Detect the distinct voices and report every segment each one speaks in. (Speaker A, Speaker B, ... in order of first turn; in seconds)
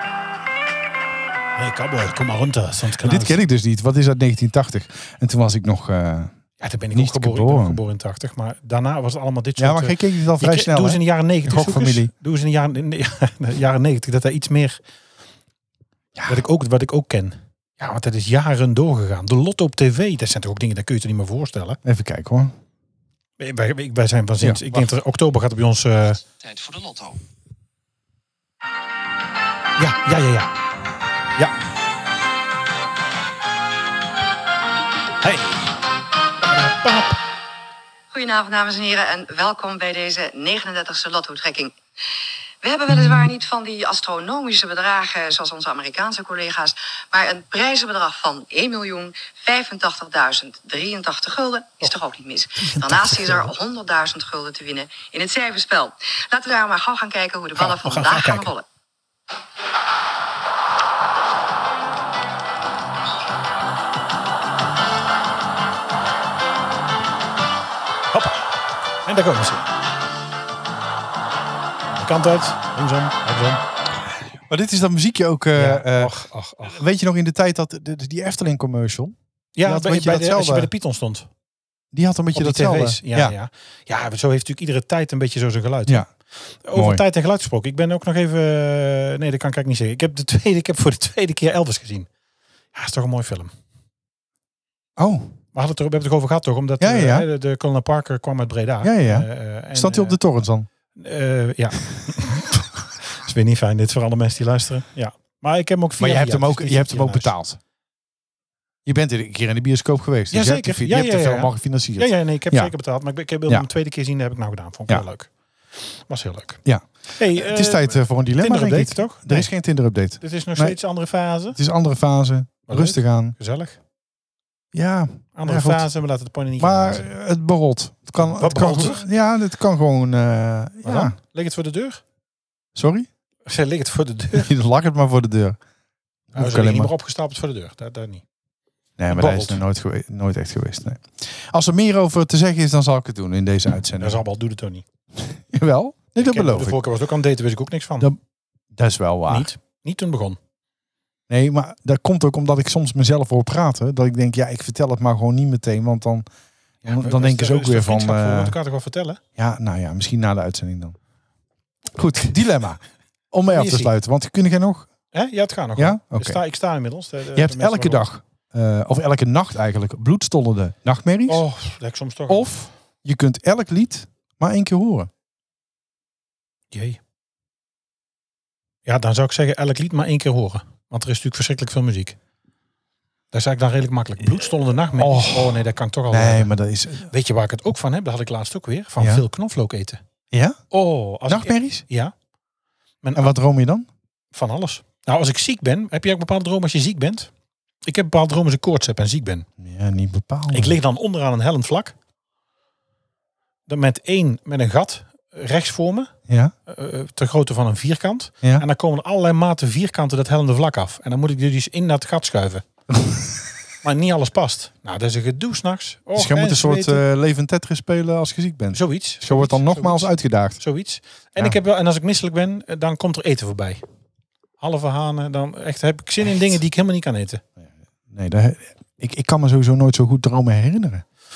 Speaker A: 1.6-3.4, 6.6-14.8, 16.3-21.8, 23.4-26.2, 29.8-30.5, 35.2-35.7, 36.5-37.2, 52.6-53.5, 57.5-58.5, 68.1-69.7, 72.0-73.6, 75.5-76.8, 79.6-81.3, 82.3-86.1, 86.7-92.1, 92.7-93.5, 95.5-100.2, 101.0-107.3, 110.3-115.3, 115.9-116.6, 117.2-119.5, 120.2-121.6, 122.7-123.8, 125.4-127.1, 128.2-129.1, 130.8-132.0, 133.5-134.5, 136.3-138.2, 139.1-139.6, 144.0-144.8, 146.2-148.1, 149.3-150.4, 156.9-159.2, 163.5-163.9, 165.1-168.1, 171.3-172.5, 176.7-177.0, 178.9-182.2, 183.3-186.5, 187.1-190.0, 190.7-192.1, 193.0-193.3, 194.3-197.3, 197.9-199.5, 200.5-201.9, 203.7-206.1, 206.7-212.6, 213.8-217.0, 218.7-223.8, 224.6-227.4
Speaker B: 3.0-6.3, 6.9-7.8, 9.6-12.1, 16.1-16.4, 21.8-22.5, 24.4-24.9, 74.5-80.7, 81.9-83.4, 86.8-87.0, 95.0-95.3, 96.8-97.3, 98.8-100.7, 106.0-107.6, 108.9-112.7, 116.7-120.8, 121.5-123.3, 124.7-125.9, 126.6-131.2, 132.8-133.1, 134.3-135.6, 136.3-136.9, 139.0-144.2, 145.2-146.8, 148.7-149.5, 151.3-156.3, 156.8-158.6, 159.4-161.0, 161.9-162.8, 163.3-164.9, 165.8-166.4, 167.3-171.4, 172.3-175.1, 184.9-187.1, 190.3-190.6, 191.3-191.8, 193.2-193.9, 199.6-200.8, 206.3-206.5, 216.2-220.6, 227.6-231.0
Speaker C: 38.1-41.7, 42.6-58.6